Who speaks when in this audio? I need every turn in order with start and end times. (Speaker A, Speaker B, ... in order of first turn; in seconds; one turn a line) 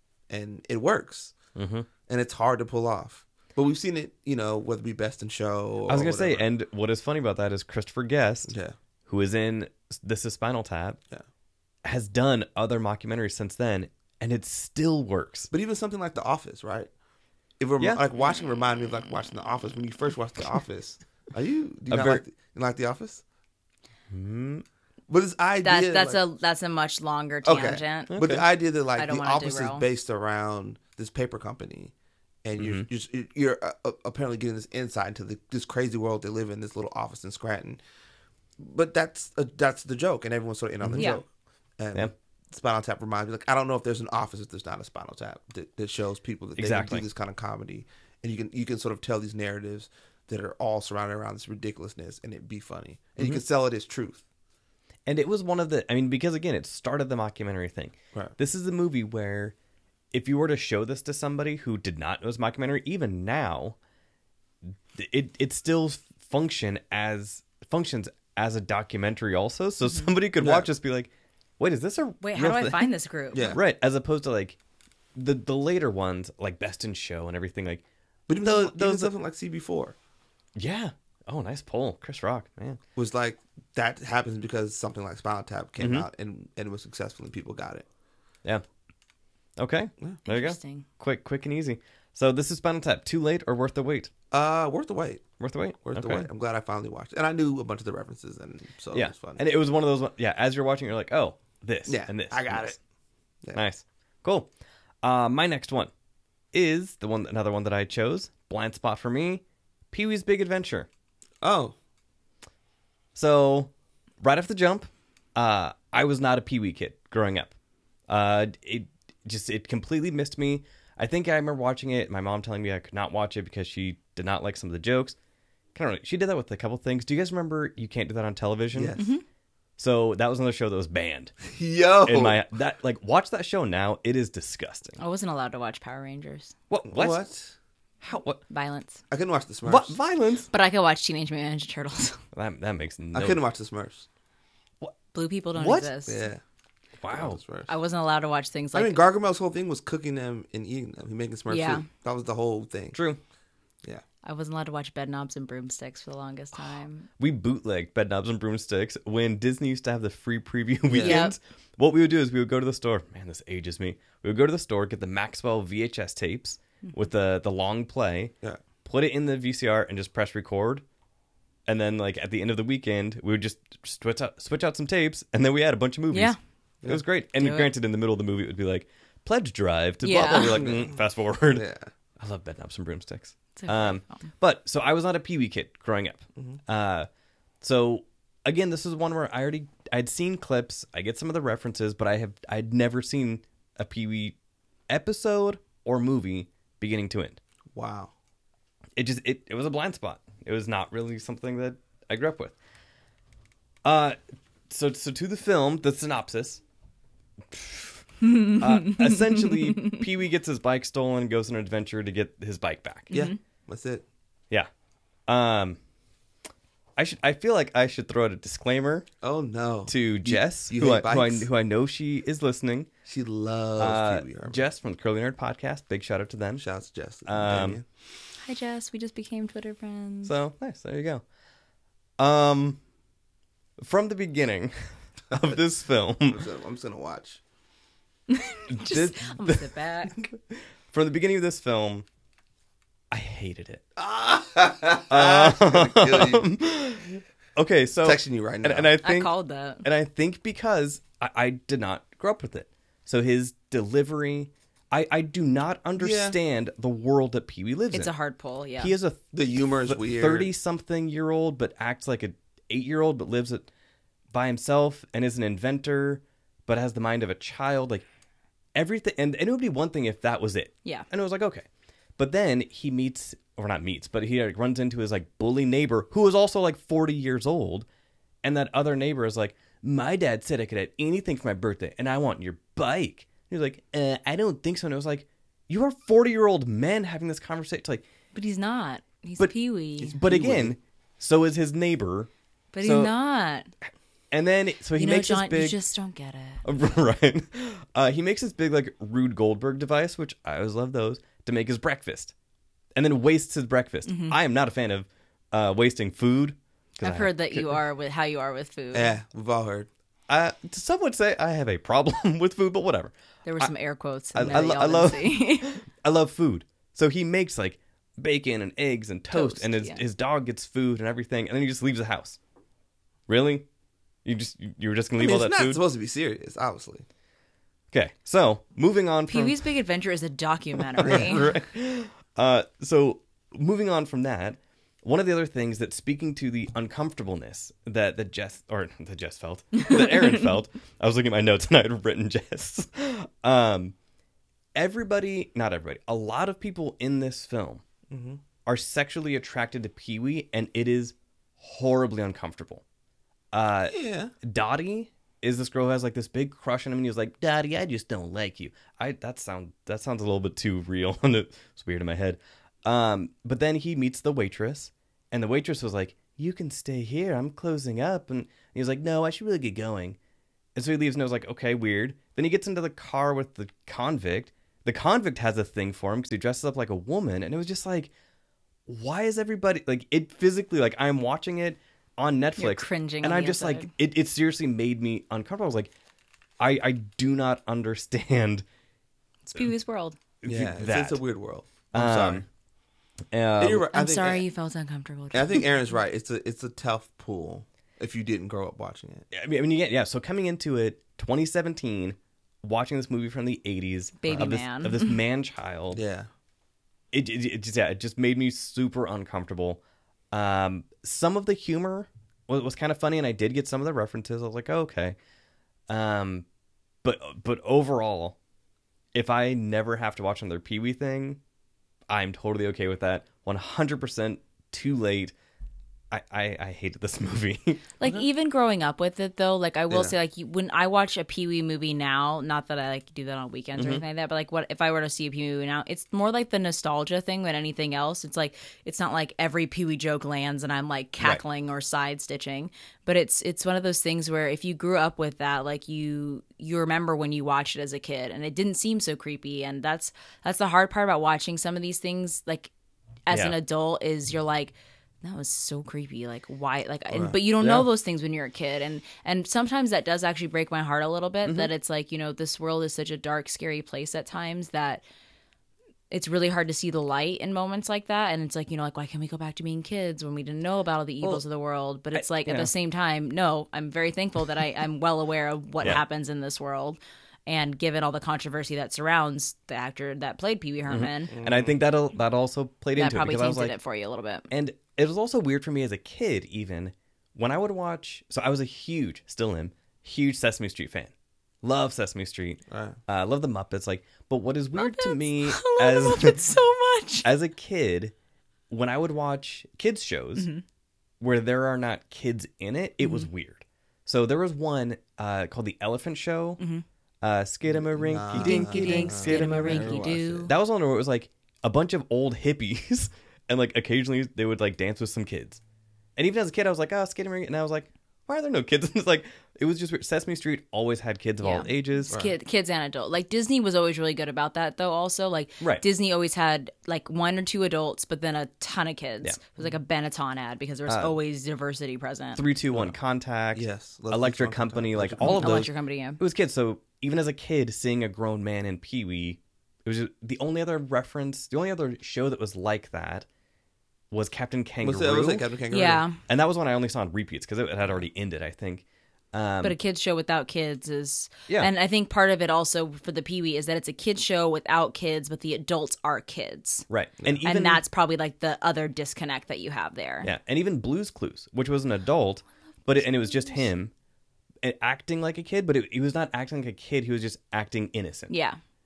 Speaker A: 0.3-1.3
Speaker B: 1.6-1.9
Speaker A: 2.0-6.4
Speaker B: 5.9-8.5
Speaker A: 8.5-8.8
Speaker B: 9.1-11.0
Speaker B: 11.8-15.5
Speaker A: 15.5-16.9
Speaker A: 17.6-23.2
Speaker B: 21.9-22.2
Speaker B: 24.1-24.6
Speaker A: 25.1-26.2
Speaker C: 25.6-28.3
Speaker A: 27.4-31.9
Speaker B: 28.1-28.4
Speaker C: 28.9-29.8
Speaker A: 32.4-37.8
Speaker B: 32.6-32.9
Speaker A: 38.6-41.3
Speaker B: 40.8-41.1
Speaker A: 41.8-54.2
Speaker B: 46.6-47.0
Speaker B: 55.0-59.5
Speaker B: 60.1-63.8
Speaker B: 64.9-72.9
Speaker A: 70.4-70.7
Speaker C: 72.2-73.6
Speaker A: 73.3-73.6
Speaker B: 73.4-74.6
Speaker B: 75.1-77.8
Speaker A: 78.3-80.0
Speaker B: 78.4-79.1
Speaker B: 80.5-82.8
Speaker A: 83.0-87.8
Speaker B: 85.8-86.1
Speaker B: 89.6-94.1
Speaker C: 90.2-90.8
Speaker A: 94.3-95.2
Speaker B: 95.4-96.3
Speaker A: 95.8-99.4
Speaker B: 98.9-102.8
Speaker A: 101.8-102.8
Speaker B: 103.5-104.5
Speaker B: 105.0-105.9
Speaker B: 106.5-110.9
Speaker A: 111.4-111.7
Speaker B: 113.1-117.5
Speaker B: 118.1-125.2
Speaker B: 125.7-129.0
Speaker A: 128.7-129.1
Speaker C: 128.9-129.2
Speaker B: 129.8-131.3
Speaker A: 131.4-132.4
Speaker B: 132.0-135.0
Speaker C: 135.0-136.5
Speaker B: 136.7-137.2
Speaker A: 136.8-137.5
Speaker B: 138.0-138.4
Speaker C: 138.5-139.0
Speaker A: 139.1-140.0
Speaker B: 139.6-140.5
Speaker C: 140.5-142.2
Speaker B: 142.3-143.4
Speaker A: 143.1-144.1
Speaker C: 145.1-146.3
Speaker B: 145.6-145.9
Speaker A: 146.1-146.4
Speaker B: 147.0-147.4
Speaker A: 147.1-147.7
Speaker C: 147.7-149.0
Speaker A: 148.7-153.0
Speaker C: 151.5-151.8
Speaker B: 152.9-153.2
Speaker C: 154.2-157.1
Speaker B: 157.2-168.3
Speaker A: 160.9-161.3
Speaker C: 161.0-161.3
Speaker B: 168.8-170.8
Speaker B: 171.7-181.7
Speaker C: 176.1-176.4
Speaker C: 177.3-177.7
Speaker C: 180.0-180.6
Speaker A: 180.5-181.0
Speaker A: 181.5-181.9
Speaker B: 182.2-187.1
Speaker C: 183.6-184.2
Speaker B: 187.6-194.3
Speaker B: 194.9-197.4
Speaker A: 197.7-198.1
Speaker B: 199.0-202.5
Speaker B: 203.8-204.2
Speaker B: 204.7-206.6
Speaker B: 207.5-213.1
Speaker C: 208.2-210.0
Speaker C: 213.1-213.4
Speaker A: 213.1-214.0
Speaker B: 215.3-215.8
Speaker B: 217.0-219.1
Speaker A: 219.2-221.5
Speaker B: 219.9-222.9
Speaker A: 223.0-224.6
Speaker B: 223.8-226.6
Speaker A: 226.6-227.8
Speaker B: 227.2-227.8
Speaker C: 228.4-230.3
Speaker B: 230.2-231.2
Speaker B: 232.2-232.8
Speaker B: 233.8-234.7
Speaker B: 235.3-236.4
Speaker A: 236.3-237.4
Speaker C: 238.3-240.2
Speaker B: 238.7-242.1
Speaker B: 243.1-243.8
Speaker A: 243.9-246.5
Speaker B: 245.1-258.1
Speaker A: 248.0-248.9
Speaker C: 249.0-249.8
Speaker A: 256.0-256.4
Speaker C: 257.9-258.9
Speaker B: 258.8-263.7
Speaker A: 259.3-260.5
Speaker B: 264.3-268.0
Speaker B: 268.7-271.6
Speaker B: 272.2-277.9
Speaker B: 278.4-288.0
Speaker C: 288.3-290.2
Speaker A: 290.0-290.8
Speaker B: 290.1-292.3
Speaker C: 292.7-293.7
Speaker B: 292.8-293.1
Speaker B: 294.3-295.8
Speaker C: 295.0-296.6
Speaker B: 296.6-302.3
Speaker B: 302.9-307.8
Speaker C: 304.1-304.4
Speaker C: 307.0-309.1
Speaker A: 308.9-309.9
Speaker B: 310.3-313.7
Speaker C: 313.4-315.8
Speaker B: 314.3-322.4
Speaker A: 314.4-314.8
Speaker C: 319.3-320.0
Speaker B: 323.3-323.6
Speaker B: 324.2-325.8
Speaker A: 325.2-327.0
Speaker B: 327.9-329.6
Speaker C: 329.3-331.5
Speaker B: 330.9-343.9
Speaker A: 331.0-331.4
Speaker C: 339.8-340.3
Speaker B: 344.8-347.8
Speaker A: 348.1-348.4
Speaker B: 348.6-352.8
Speaker B: 353.5-370.2
Speaker A: 353.9-354.3
Speaker B: 370.7-378.1
Speaker B: 378.9-385.9
Speaker C: 382.6-383.9
Speaker B: 386.6-388.6
Speaker C: 389.4-390.2
Speaker B: 390.4-391.2
Speaker A: 390.4-392.4
Speaker B: 391.9-392.4
Speaker B: 393.3-393.9
Speaker A: 393.6-394.4
Speaker C: 393.9-395.7
Speaker A: 395.3-399.2
Speaker B: 399.3-406.0
Speaker C: 404.2-405.2
Speaker A: 405.9-406.3
Speaker B: 407.1-409.8
Speaker B: 410.3-415.1
Speaker B: 415.9-416.4
Speaker B: 417.0-418.4
Speaker B: 419.1-421.4
Speaker B: 422.1-425.3
Speaker B: 426.1-427.9
Speaker C: 428.0-452.7
Speaker A: 429.9-430.1
Speaker B: 433.8-434.0
Speaker C: 453.3-465.0
Speaker B: 453.3-453.6
Speaker B: 457.6-457.9
Speaker B: 461.4-461.7
Speaker C: 466.1-481.3
Speaker B: 472.1-472.7
Speaker B: 480.9-483.7
Speaker A: 481.3-481.7
Speaker C: 482.9-484.5
Speaker B: 484.5-491.1
Speaker B: 491.6-496.4
Speaker A: 492.7-493.0
Speaker C: 494.8-497.2
Speaker B: 497.2-498.1
Speaker B: 498.7-500.5
Speaker C: 500.4-500.6
Speaker B: 501.2-506.6
Speaker C: 503.0-503.3
Speaker C: 506.6-506.8
Speaker B: 507.2-515.6
Speaker A: 507.9-510.5
Speaker C: 508.3-510.5
Speaker B: 516.1-522.1
Speaker C: 521.4-532.4
Speaker A: 522.1-522.3
Speaker B: 530.9-531.1
Speaker B: 532.3-543.2
Speaker A: 533.5-535.7
Speaker C: 535.2-536.2
Speaker B: 544.1-545.4
Speaker A: 544.8-546.0
Speaker C: 545.7-546.2
Speaker B: 546.3-549.7
Speaker C: 549.6-556.9
Speaker B: 556.9-557.8
Speaker C: 557.4-560.3
Speaker B: 560.2-563.9
Speaker C: 563.0-563.5
Speaker B: 564.6-568.3
Speaker C: 568.3-568.6